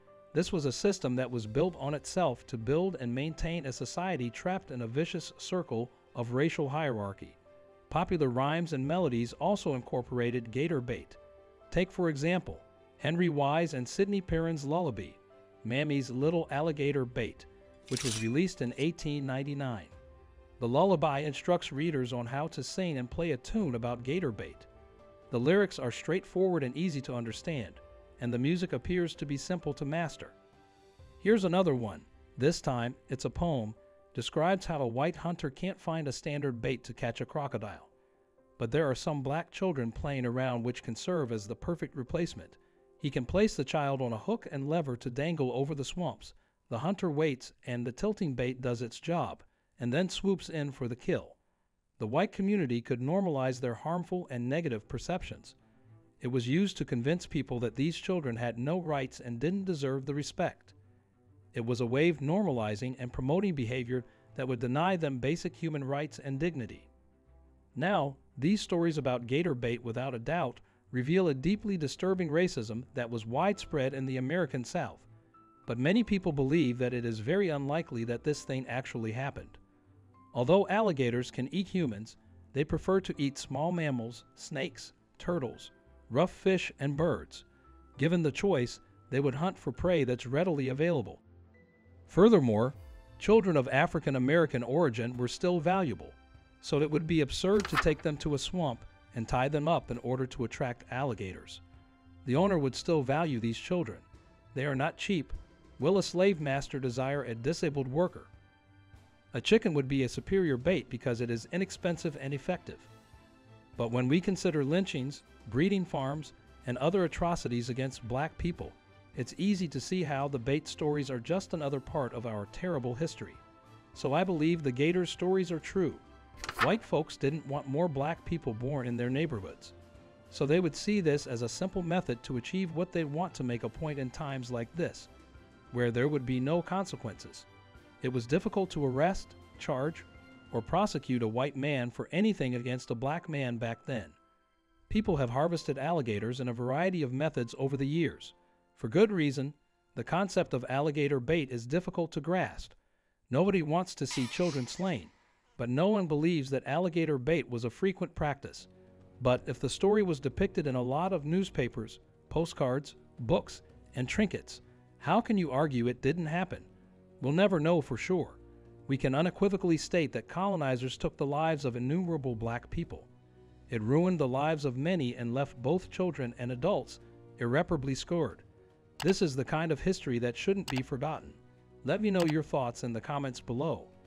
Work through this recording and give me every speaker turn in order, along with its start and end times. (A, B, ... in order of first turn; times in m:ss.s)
0:00.3-0:07.4 A
0:07.9-0:11.2 A
0:11.7-0:19.9 A
0:20.6-0:24.7 A
0:25.3-0:30.3 A
0:31.2-0:37.9 A
0:38.6-0:51.4 A
0:52.0-0:55.6 A
0:56.2-1:00.7 A
1:01.5-1:06.9 A
1:07.7-1:15.1 A
1:15.6-1:19.6 A
1:20.3-1:27.4 A
1:28.0-1:31.2 A
1:32.1-1:41.6 A
1:42.2-1:48.3 A
1:49.3-1:52.9 A
1:53.8-2:03.4 A
2:03.9-2:06.0 A
2:06.6-2:09.7 A
2:10.3-2:15.1 A
2:15.7-2:17.5 A
2:18.0-2:24.2 A
2:24.9-2:32.7 A
2:33.3-2:46.7 A
2:47.2-2:53.1 A
2:53.7-2:58.4 A
2:59.0-3:03.9 A